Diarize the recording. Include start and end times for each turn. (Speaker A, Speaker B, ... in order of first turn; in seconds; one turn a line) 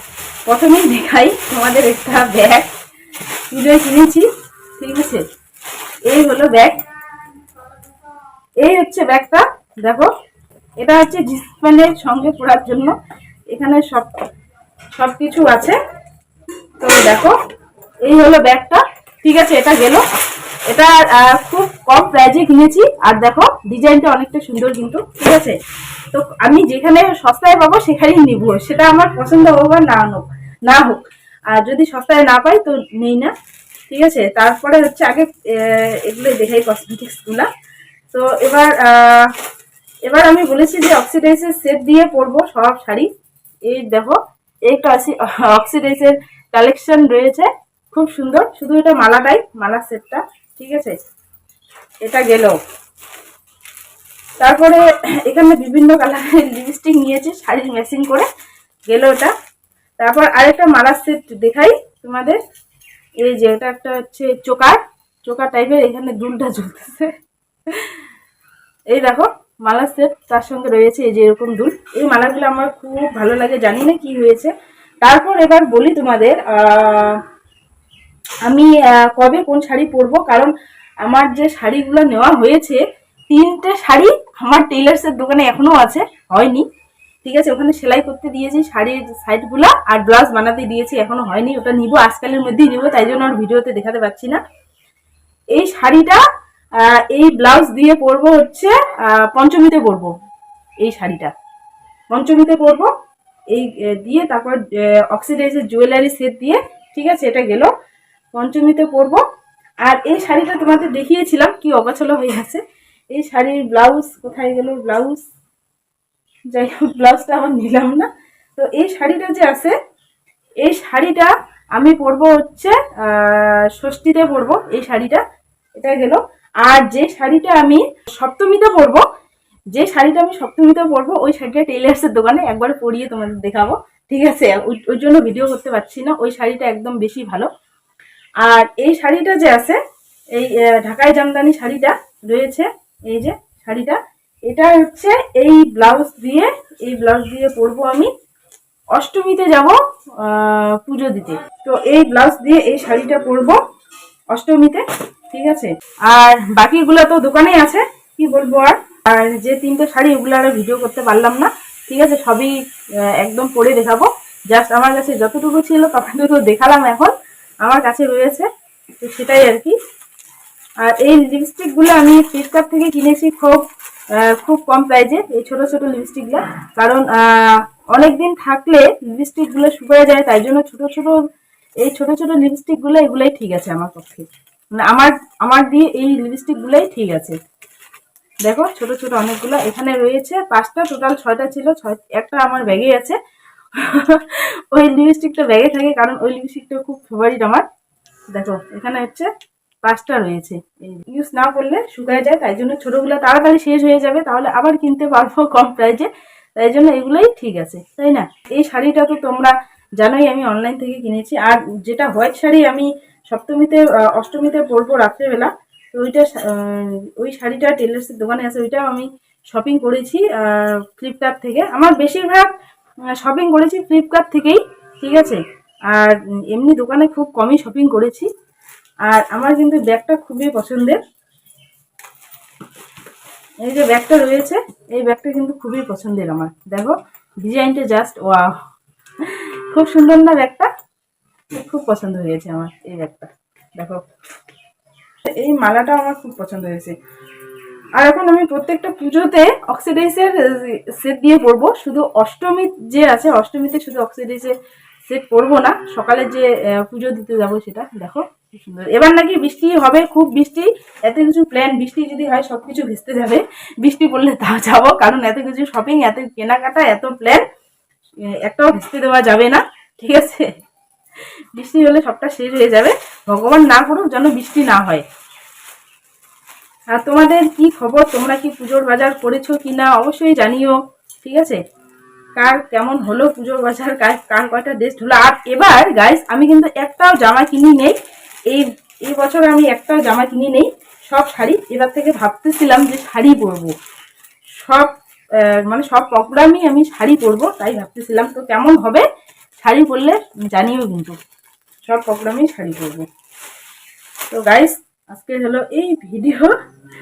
Speaker A: 0.5-2.7
Speaker A: 3.5-4.3
Speaker A: 4.8-5.2
Speaker A: 6.1-6.8
Speaker A: 8.6-10.1
Speaker A: 10.8-12.9
Speaker A: 13.5-14.1
Speaker A: 14.9-15.8
Speaker A: 16.8-17.4
Speaker A: 18.1-20.0
Speaker A: 20.7-25.6
Speaker A: 26.1-33.3
Speaker A: 33.9-37.5
Speaker A: 38.1-39.3
Speaker A: 40.1-43.1
Speaker A: 43.7-51.0
Speaker A: 52.0-52.6
Speaker A: 54.4-58.3
Speaker A: 58.9-59.3
Speaker A: 60.0-62.4
Speaker A: 63.2-67.1
Speaker A: 67.7-68.0
Speaker A: 68.9-74.5
Speaker A: 75.0-77.2
Speaker A: 78.5-80.5
Speaker A: 81.0-86.7
Speaker A: 87.2-94.4
Speaker A: 95.5-96.2
Speaker A: 96.8-100.1
Speaker A: 100.8-101.3
Speaker A: 102.1-102.9
Speaker A: 103.5-107.7
Speaker A: 108.3-109.2
Speaker A: 109.8-112.6
Speaker A: 113.1-115.2
Speaker A: 116.5-119.8
Speaker A: 120.6-125.2
Speaker A: 125.8-129.0
Speaker A: 129.7-137.5
Speaker A: 138.4-139.8
Speaker A: 140.3-148.1
Speaker A: 148.9-153.6
Speaker A: 154.3-167.1
Speaker A: 167.7-168.5
Speaker A: 169.0-169.8
Speaker A: 170.8-181.2
Speaker A: 181.8-187.4
Speaker A: 188.5-193.2
Speaker A: 193.8-197.7
Speaker A: 198.3-199.3
Speaker A: 199.8-222.5
Speaker A: 223.2-228.3
Speaker A: 229.1-231.0
Speaker A: 233.6-238.6
Speaker A: 239.2-240.7
Speaker A: 241.5-244.0
Speaker A: 245.2-247.0
Speaker A: 248.0-254.6
Speaker A: 255.1-267.4
Speaker A: 268.4-270.5
Speaker A: 271.6-275.1
Speaker A: 276.9-281.6
Speaker A: 282.4-288.0
Speaker A: 288.5-293.7
Speaker A: 294.6-294.9
Speaker A: 295.4-299.1
Speaker A: 299.6-301.2
Speaker A: 301.9-303.1
Speaker A: 304.3-306.6